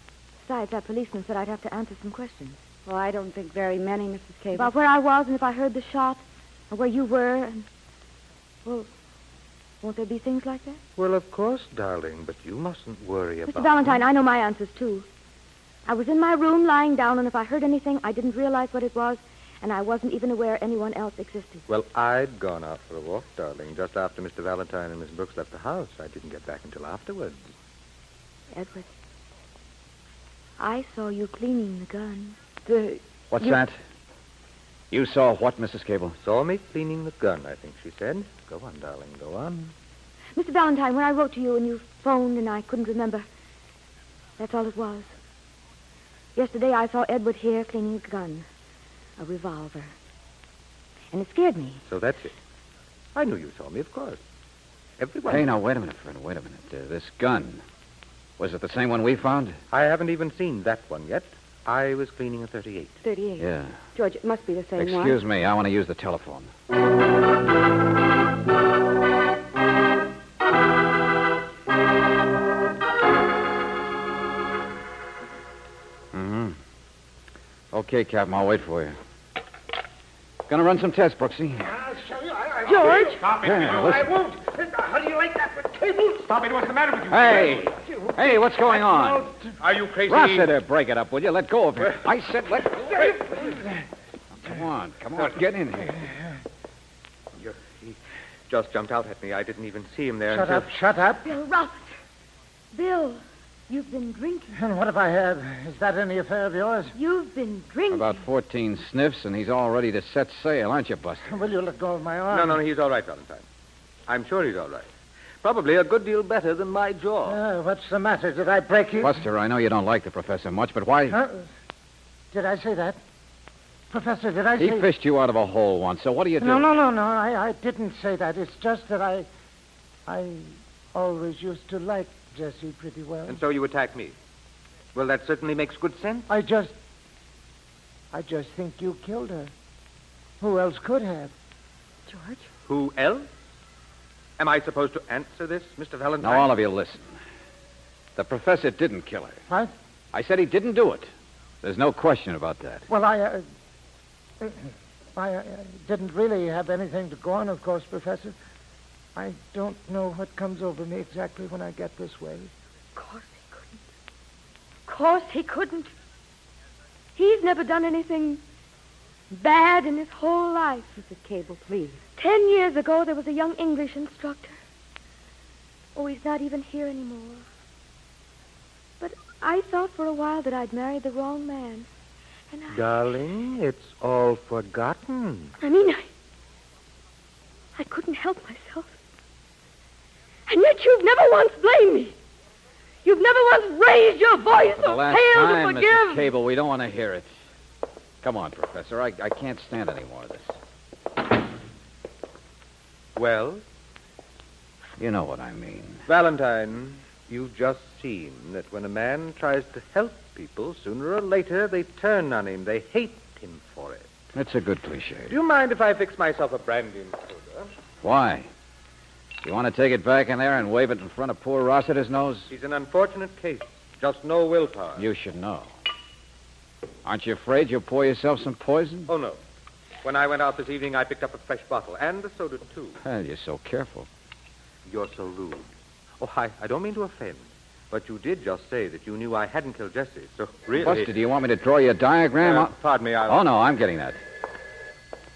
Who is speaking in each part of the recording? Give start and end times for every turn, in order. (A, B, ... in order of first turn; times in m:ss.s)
0:00.4-0:02.6 A
0:02.8-0:04.7 B
0:04.5-0:07.7 A
0:09.8-0:10.8 A
0:11.0-0:14.0 C
0:13.5-0:15.1 A
0:15.8-0:21.6 A
0:21.7-0:27.4 C
0:28.5-0:28.9 A
0:30.6-0:33.6 A
0:33.3-0:33.8 D
0:34.9-0:36.2 D
0:36.2-0:39.7 C
0:40.4-0:43.3 A
0:44.4-0:45.1 A
0:46.3-0:48.4 A
0:49.2-0:49.9 A
0:51.1-0:51.8 A
0:51.9-0:52.3 C
0:53.1-0:54.2 C
0:55.0-0:55.5 C
0:55.3-0:57.6 D
0:58.4-0:59.6 D
0:59.7-1:03.0 C
1:03.0-1:05.2 B
1:03.4-1:03.8 D
1:04.8-1:06.5 D
1:16.1-1:16.6 D
1:17.7-1:19.0 D
1:20.5-1:21.7 D
1:21.6-1:26.3 E
1:23.4-1:24.1 D
1:26.2-1:27.3 C
1:27.1-1:29.3 D
1:27.5-1:29.1 E
1:29.6-1:30.5 C
1:30.0-1:33.1 D
1:34.4-1:36.0 D
1:37.3-1:40.7 C
1:40.3-1:41.3 E
1:41.2-1:41.9 A
1:42.7-1:44.6 A
1:44.5-1:46.9 E
1:46.9-1:48.2 A
1:47.9-1:51.4 D
1:51.2-1:52.6 E
1:52.3-1:53.4 C
1:54.1-1:54.9 C
1:55.4-1:57.4 C
1:57.2-1:59.2 E
1:59.0-2:01.2 D
2:01.1-2:01.4 E
2:02.3-2:03.0 E
2:03.9-2:04.9 E
2:04.6-2:06.7 D
2:06.4-2:09.3 E
2:10.1-2:13.4 E
2:13.3-2:14.1 C
2:14.9-2:16.3 C
2:16.3-2:16.7 E
2:18.1-2:19.5 E
2:20.4-2:21.3 E
2:22.1-2:22.5 A
2:22.7-2:23.3 C
2:24.4-2:26.5 C
2:26.2-2:27.2 D
2:28.2-2:29.4 D
2:30.1-2:31.1 D
2:31.6-2:32.9 D
2:32.9-2:33.4 E
2:34.4-2:38.3 E
2:39.1-2:42.5 E
2:42.9-2:43.8 A
2:44.9-2:45.9 A
2:47.2-2:48.4 A
2:49.3-2:51.0 A
2:51.0-2:52.0 B
2:52.2-2:54.5 A
2:55.9-2:57.4 A
2:59.0-3:01.9 A
3:02.5-3:03.1 A
3:02.7-3:05.5 C
3:05.6-3:06.1 A
3:07.7-3:08.9 A
3:10.5-3:12.1 A
3:13.0-3:16.3 A
3:14.6-3:17.3 D
3:18.2-3:20.6 D
3:23.2-3:23.6 C
3:25.0-3:26.0 D
3:26.0-3:34.1 C
3:34.3-3:35.3 D
3:35.3-3:37.7 C
3:38.0-3:38.5 D
3:39.4-3:42.5 D
3:42.5-3:45.0 C
3:45.0-3:45.7 D
3:47.0-3:49.1 D
3:49.1-3:49.4 C
3:50.0-3:53.0 C
3:53.0-3:54.1 D
3:54.9-3:55.7 C
3:56.2-4:01.1 C
4:00.8-4:04.2 D
4:02.4-4:03.4 C